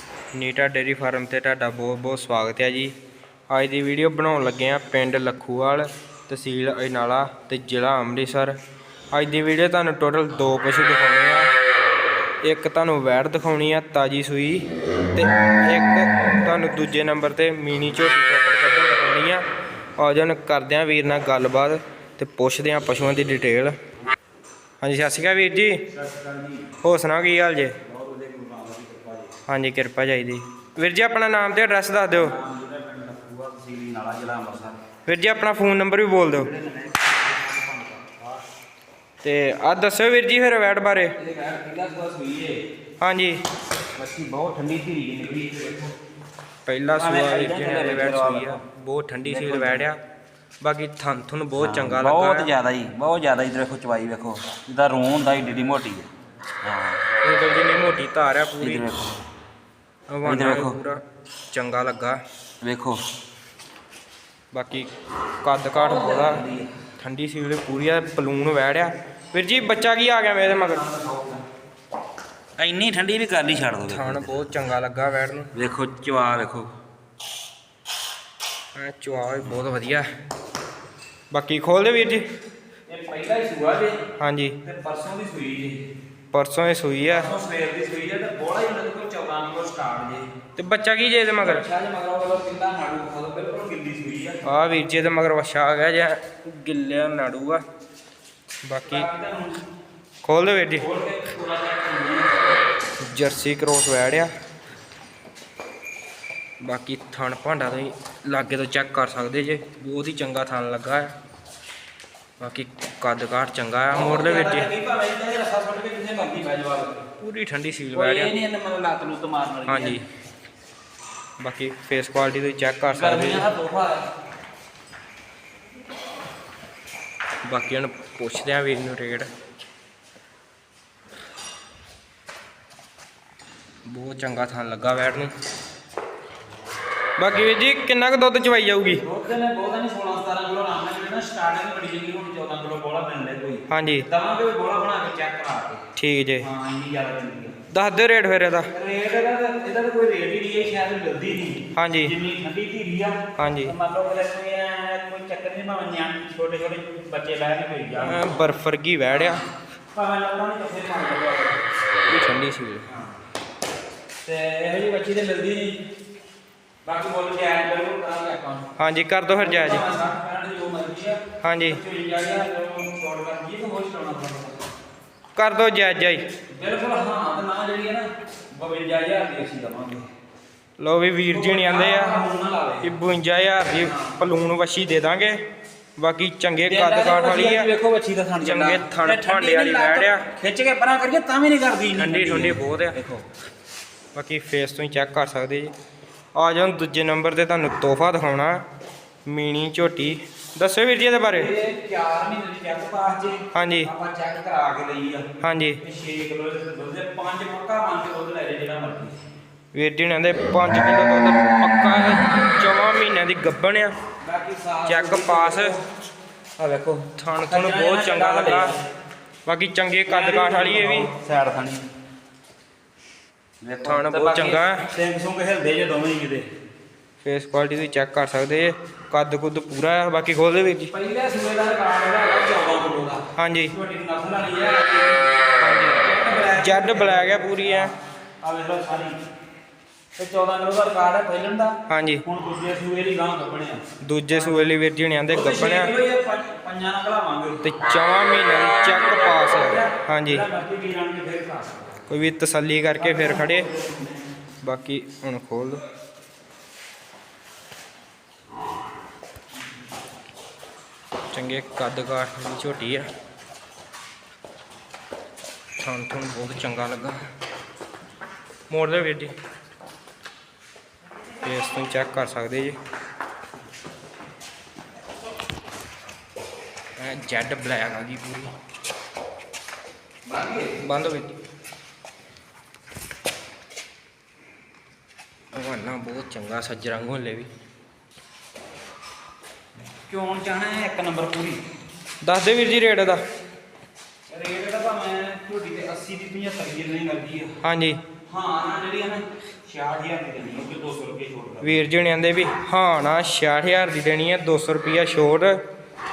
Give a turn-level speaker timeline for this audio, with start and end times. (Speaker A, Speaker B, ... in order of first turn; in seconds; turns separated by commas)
Speaker A: 0.3-3.0, Speaker A: 3.5-8.6, Speaker A: 9.1-11.5, Speaker A: 12.4-19.4, Speaker A: 20.0-23.8, Speaker A: 24.8-25.9, Speaker B: 25.9-26.7, Speaker A: 26.8-27.8, Speaker B: 27.8-29.4, Speaker A: 29.5-32.4, Speaker B: 32.1-34.8, Speaker A: 35.1-36.5, Speaker B: 36.3-38.4, Speaker A: 39.2-41.2, Speaker B: 41.2-42.6, Speaker A: 43.0-43.4, Speaker B: 44.0-46.0, Speaker A: 46.7-50.0, Speaker B: 47.0-48.6, Speaker B: 49.2-49.9, Speaker A: 50.6-52.5, Speaker B: 51.6-56.1, Speaker B: 56.6-57.0, Speaker A: 57.2-58.9, Speaker B: 58.6-59.2, Speaker A: 60.1-62.2, Speaker B: 60.2-60.8, Speaker B: 62.6-63.0, Speaker A: 64.5-64.9, Speaker A: 65.4-66.4, Speaker B: 65.7-66.7, Speaker A: 67.0-70.9, Speaker B: 70.5-71.4, Speaker B: 72.6-74.5, Speaker A: 73.9-75.5, Speaker B: 75.5-76.7, Speaker A: 78.8-80.1, Speaker A: 81.3-82.2, Speaker B: 82.9-84.0, Speaker A: 84.2-84.6, Speaker B: 84.6-85.8, Speaker A: 86.3-87.3, Speaker B: 87.1-90.3, Speaker A: 90.6-91.6, Speaker B: 91.4-94.4, Speaker A: 94.4-97.6, Speaker A: 98.6-99.1, Speaker B: 98.8-99.6, Speaker A: 100.2-100.9, Speaker B: 100.8-102.4, Speaker A: 103.0-104.3, Speaker A: 106.6-111.1, Speaker A: 112.4-114.7, Speaker B: 113.9-117.0, Speaker A: 117.2-118.3, Speaker B: 117.9-120.0, Speaker A: 119.7-120.0, Speaker A: 121.4-123.5, Speaker B: 122.9-124.1, Speaker A: 127.5-129.3, Speaker A: 133.9-135.3, Speaker A: 137.2-139.0, Speaker B: 138.9-145.8, Speaker A: 143.7-144.1, Speaker A: 146.0-146.5, Speaker B: 146.4-147.6, Speaker A: 147.7-148.7, Speaker B: 148.7-158.4, Speaker A: 151.8-152.1, Speaker A: 153.4-153.7, Speaker A: 158.0-159.4, Speaker B: 159.1-161.6, Speaker A: 162.1-162.9, Speaker B: 162.9-163.2, Speaker B: 164.2-165.8, Speaker B: 166.8-168.7, Speaker A: 168.8-169.8, Speaker B: 169.3-174.6, Speaker A: 171.4-171.8, Speaker A: 175.4-176.2, Speaker B: 176.5-180.1, Speaker A: 180.8-182.2, Speaker B: 181.3-182.9, Speaker A: 182.8-185.4, Speaker B: 183.8-184.2, Speaker A: 186.0-187.7, Speaker B: 186.7-193.2, Speaker A: 188.4-190.3, Speaker A: 192.0-193.0, Speaker A: 194.2-195.7, Speaker A: 196.3-198.6, Speaker A: 199.3-201.5, Speaker B: 201.3-205.3, Speaker A: 203.5-203.9, Speaker A: 205.4-205.8, Speaker B: 205.8-209.2, Speaker A: 209.7-213.9, Speaker B: 214.2-215.9, Speaker A: 214.9-215.8, Speaker B: 216.6-218.8, Speaker A: 217.2-218.8, Speaker A: 219.5-221.1, Speaker B: 220.1-221.9, Speaker B: 223.6-226.5, Speaker A: 223.8-224.9, Speaker A: 227.2-230.9, Speaker B: 230.9-235.4, Speaker A: 233.3-233.7, Speaker A: 235.6-237.9, Speaker B: 235.9-239.2, Speaker B: 240.2-244.7, Speaker A: 241.9-242.2, Speaker A: 244.0-245.9, Speaker B: 245.3-247.6, Speaker A: 247.6-250.4, Speaker B: 248.6-252.0, Speaker A: 252.1-253.7, Speaker B: 253.0-254.2, Speaker A: 254.6-255.8, Speaker A: 261.3-263.1, Speaker A: 265.8-267.2, Speaker A: 268.7-269.3, Speaker A: 271.4-272.8, Speaker A: 277.0-278.5, Speaker B: 280.3-280.8, Speaker A: 280.8-281.3, Speaker A: 285.5-287.5, Speaker B: 290.1-291.6, Speaker A: 292.2-293.2, Speaker B: 294.3-297.6, Speaker A: 297.6-298.0, Speaker B: 298.3-301.9, Speaker A: 301.6-305.6